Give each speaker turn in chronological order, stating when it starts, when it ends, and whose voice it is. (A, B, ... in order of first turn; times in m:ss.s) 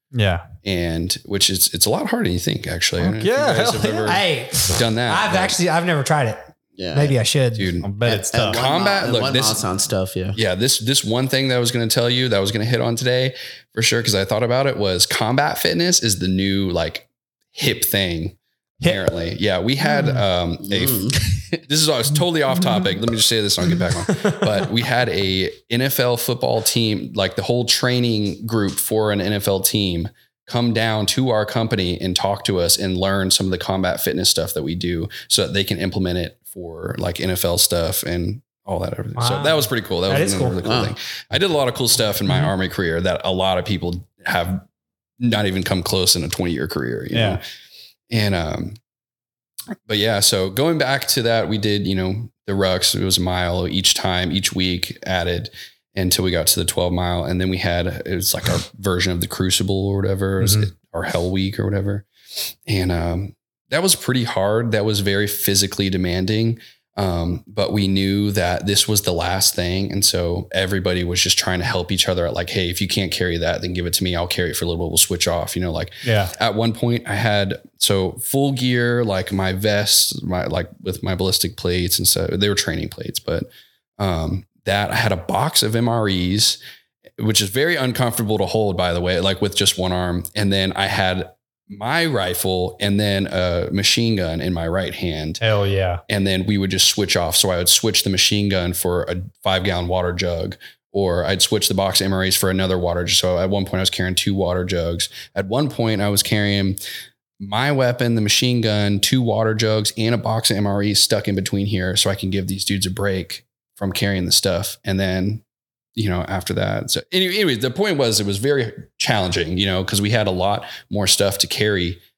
0:00.1-0:00.4 A
0:00.6-0:05.6 B
0:03.0-0:04.1 A
0:04.0-0:07.7 C
0:06.8-0:07.2 D
0:07.5-0:09.6 B
0:07.8-0:08.6 A
0:08.0-0:10.4 D
0:10.3-0:44.6 B
0:20.6-0:21.6 D
0:24.0-0:24.4 C
0:39.2-0:40.6 C
0:40.6-0:40.9 D
0:45.2-0:47.4 B
0:47.1-0:47.4 A
0:48.1-0:48.8 B
0:49.9-1:02.0 B
1:00.4-1:00.7 A
1:02.6-1:26.6 B
1:16.0-1:16.3 A
1:27.2-1:35.4 B
1:35.4-1:36.0 A
1:36.1-1:46.8 B
1:47.4-1:55.4 B
1:56.0-2:02.0 B